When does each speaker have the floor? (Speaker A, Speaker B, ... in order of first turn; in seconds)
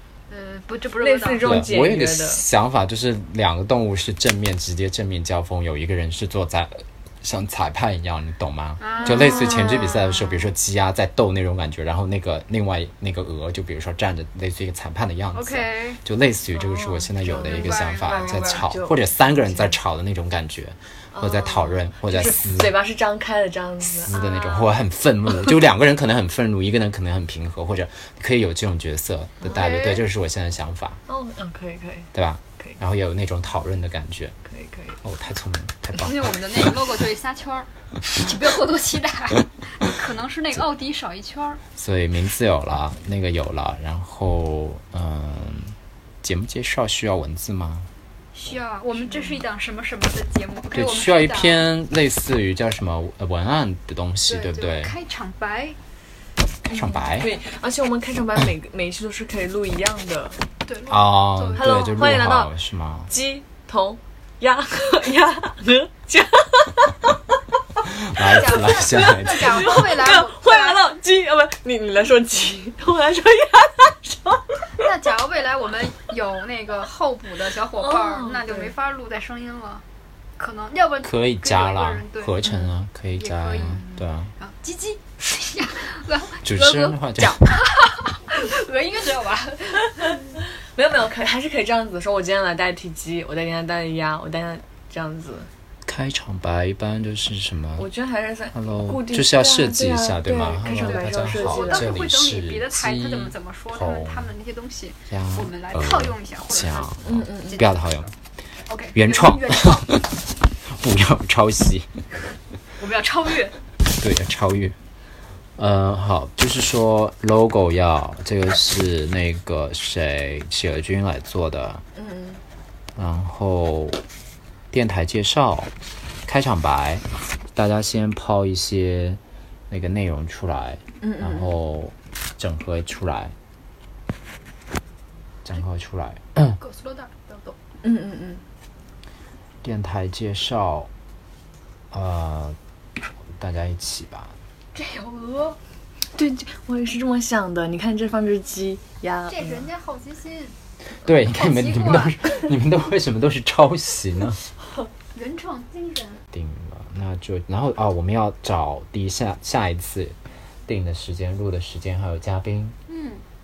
Speaker A: 0.3-1.4, 8.8-9.7, 15.3-16.0, 17.3-18.7, 29.4-30.0, 36.0-41.6, 48.3-51.6, 54.3-55.8, 60.6-62.1, 68.2-70.8, 74.8-79.8, 80.4-82.4, 83.2-90.3, 100.8-106.9, 108.7-109.9, 112.8-113.6, 136.6-137.6, 144.7-145.6, 149.3-150.5, 151.2-152.5, 155.1-156.2, 162.9-163.2
Speaker B: 1.0-2.4, 9.0-10.5, 16.5-19.8, 21.1-24.7, 31.1-32.8, 34.4-35.0, 49.0-49.4, 56.6-60.4, 61.5-62.5, 63.1-67.1, 69.0-74.9, 77.8-78.7, 90.0-95.5, 97.8-101.9, 107.0-107.6, 121.9-122.4, 131.0-131.6, 137.8-138.4, 146.1-149.7
Speaker C: 1.4-22.7, 23.9-31.0, 32.1-34.4, 35.0-36.2, 41.8-47.9, 50.7-54.9, 56.7-57.3, 60.9-63.1, 67.8-69.7, 81.0-84.3, 86.4-87.5, 95.8-97.9, 98.5-104.3, 105.1-108.1, 108.9-110.1, 110.7-111.9, 114.0-114.8, 115.6-121.8, 123.0-124.0, 124.7-125.7, 126.2-133.3, 135.4-136.6, 139.6-140.9, 141.9-142.6, 143.4-144.3, 151.0-154.4, 156.3-160.2, 160.7-162.8